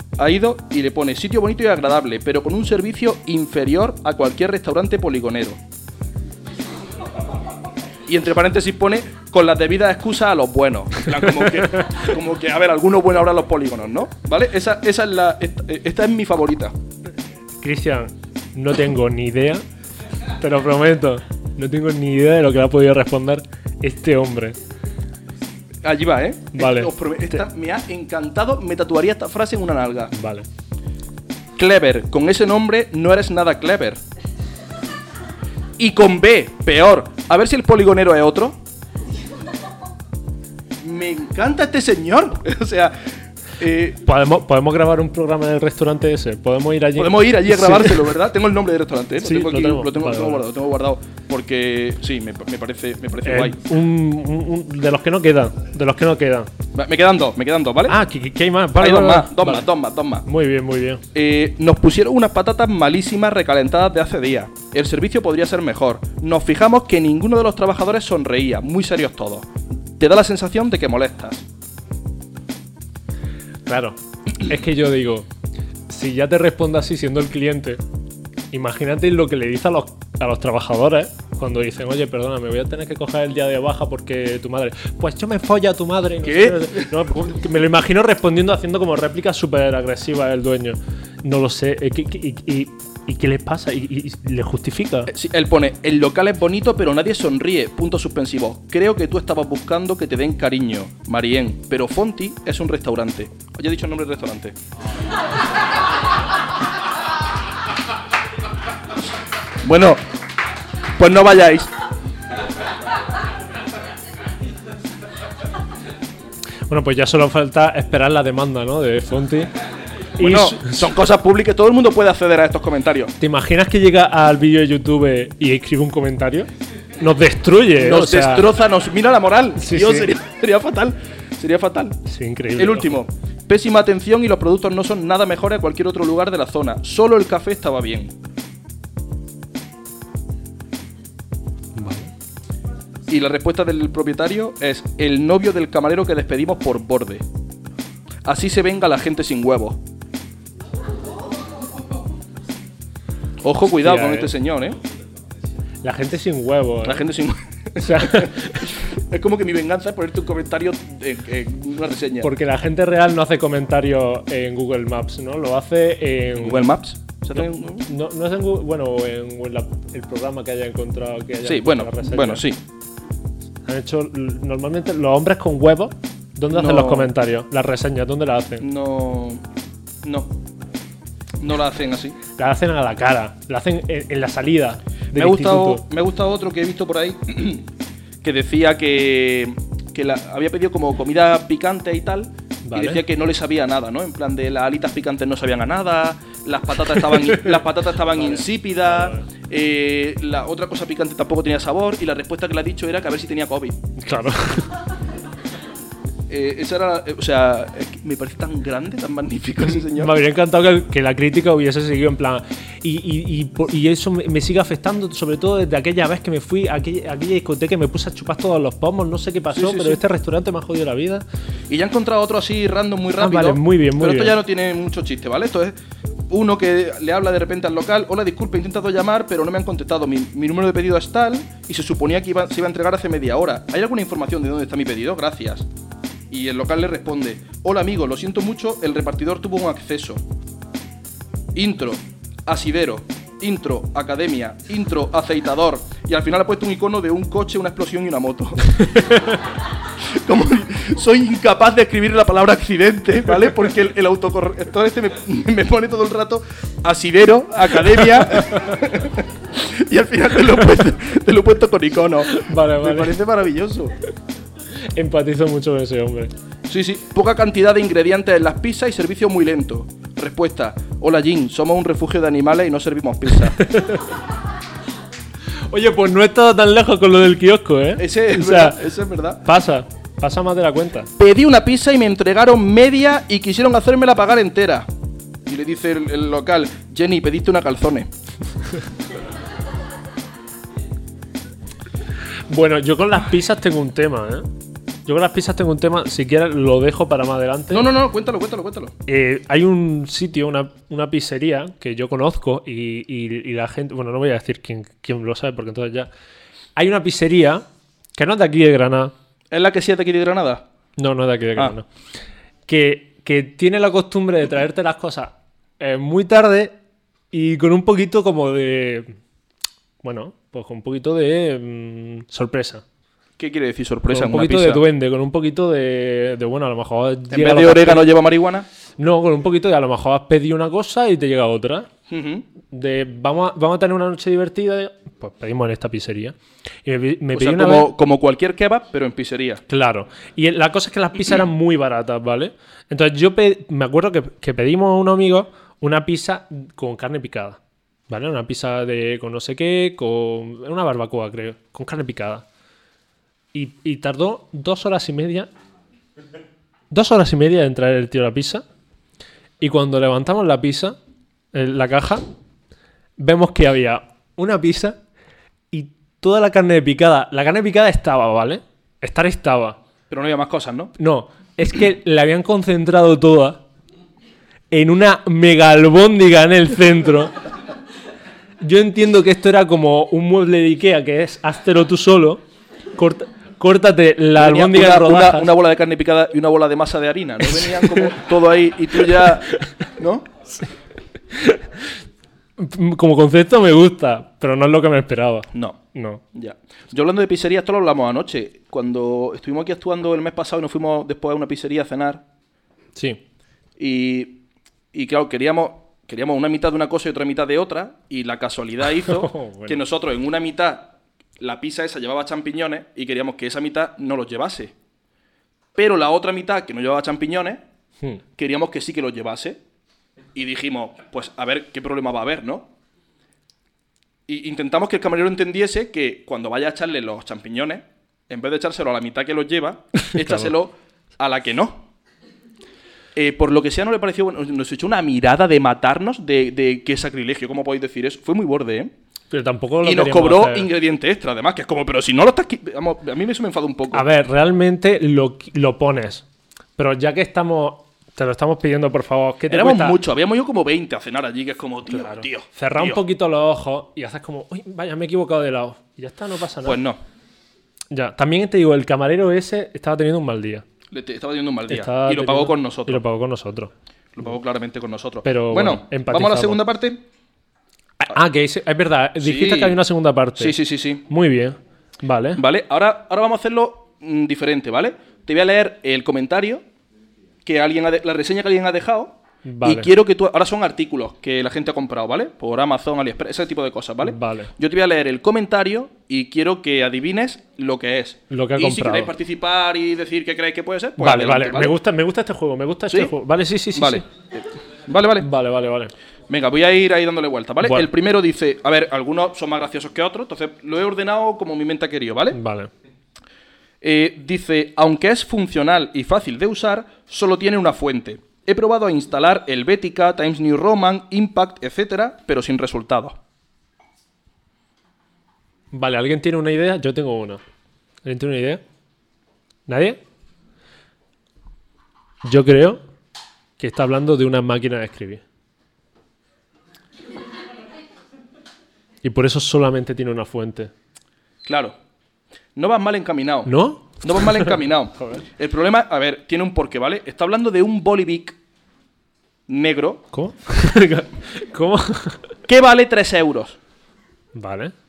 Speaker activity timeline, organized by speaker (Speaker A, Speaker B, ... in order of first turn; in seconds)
Speaker A: 0.2-5.6, 8.1-16.7, 25.8-30.1, 31.6-34.0, 35.8-38.6, 40.8-44.0, 47.0-53.6, 56.7-58.0, 58.8-60.3, 61.1-71.5, 86.2-87.1, 95.1-104.5, 109.6-110.0, 111.0-111.7, 120.2-123.1, 127.8-132.0, 132.6-138.1, 143.1-147.2, 148.2-149.8, 153.4-154.8, 156.8-162.3, 166.4-167.9, 171.4-172.6, 176.5-177.1, 178.6-179.4, 180.0-180.3, 181.4-182.2, 185.1-187.7, 188.2-203.8, 206.3-210.2, 219.5-220.0, 221.7-225.8, 226.3-235.7, 236.3-240.2, 241.6-249.2, 250.0-263.9, 266.7-273.6, 278.0-279.4, 281.2-284.9, 285.5-288.1, 297.7-298.9, 309.5-310.6, 323.4-324.8, 327.3-328.7, 332.1-332.5, 337.3-339.6, 370.1-370.9, 384.4-390.3, 396.3-402.2, 403.8-404.4, 404.9-414.7, 415.8-417.6, 418.4-419.6, 420.3-422.7, 424.3-431.9, 433.1-438.9, 439.8-444.1, 449.5-453.0, 456.6-457.0, 460.9-463.0, 464.1-467.0, 469.2-469.8, 470.4-471.0, 472.4-476.6, 477.4-491.8, 493.7-495.3, 496.3-502.4, 503.8-513.2, 531.5-531.8, 532.5-538.4, 539.5-540.0, 542.5-543.6
Speaker B: 17.6-19.6, 20.4-24.6, 26.5-27.4, 30.1-30.5, 44.0-48.1, 49.2-50.5, 53.2-56.5, 57.9-59.7, 60.2-61.0, 73.7-75.3, 75.9-77.8, 78.5-95.1, 116.7-119.5, 120.2-120.9, 123.2-126.5, 127.0-128.5, 129.6-130.1, 132.1-133.0, 141.8-142.1, 153.7-154.3, 155.8-157.1, 157.8-158.7, 162.2-166.7, 167.4-172.4, 173.7-178.7, 182.4-185.8, 192.7-193.0, 196.9-199.3, 204.0-204.8, 209.6-221.2, 223.2-224.4, 258.2-258.7, 262.2-263.2, 264.8-266.3, 273.6-274.1, 275.7-278.8, 279.4-281.1, 292.5-294.5, 295.1-297.9, 299.1-306.1, 306.8-307.6, 308.1-309.1, 311.0-311.9, 312.7-316.8, 317.3-319.1, 320.0-322.8, 324.1-328.1, 329.0-331.9, 332.7-337.9, 339.7-352.5, 353.5-355.5, 356.9-358.6, 359.6-361.0, 361.5-362.2, 363.2-365.0, 365.7-369.8, 371.0-373.6, 374.7-377.4, 378.6-382.4, 382.9-385.5, 387.6-388.1, 391.3-391.9, 392.6-396.2, 402.9-403.2, 408.9-409.8, 430.1-430.5, 439.3-440.7, 443.9-446.2, 446.8-450.0, 451.9-456.8, 457.9-460.6, 461.7-463.7, 465.2-466.6, 468.0-472.4, 479.4-479.9, 484.0-484.5, 488.3-489.1, 491.0-494.1, 495.2-495.9, 497.6-497.9, 502.3-502.7, 515.7-517.4, 518.0-518.6, 519.7-520.0, 522.2-522.8, 523.6-525.2, 529.0-530.7, 533.5-535.2, 540.1-542.3, 544.3-544.7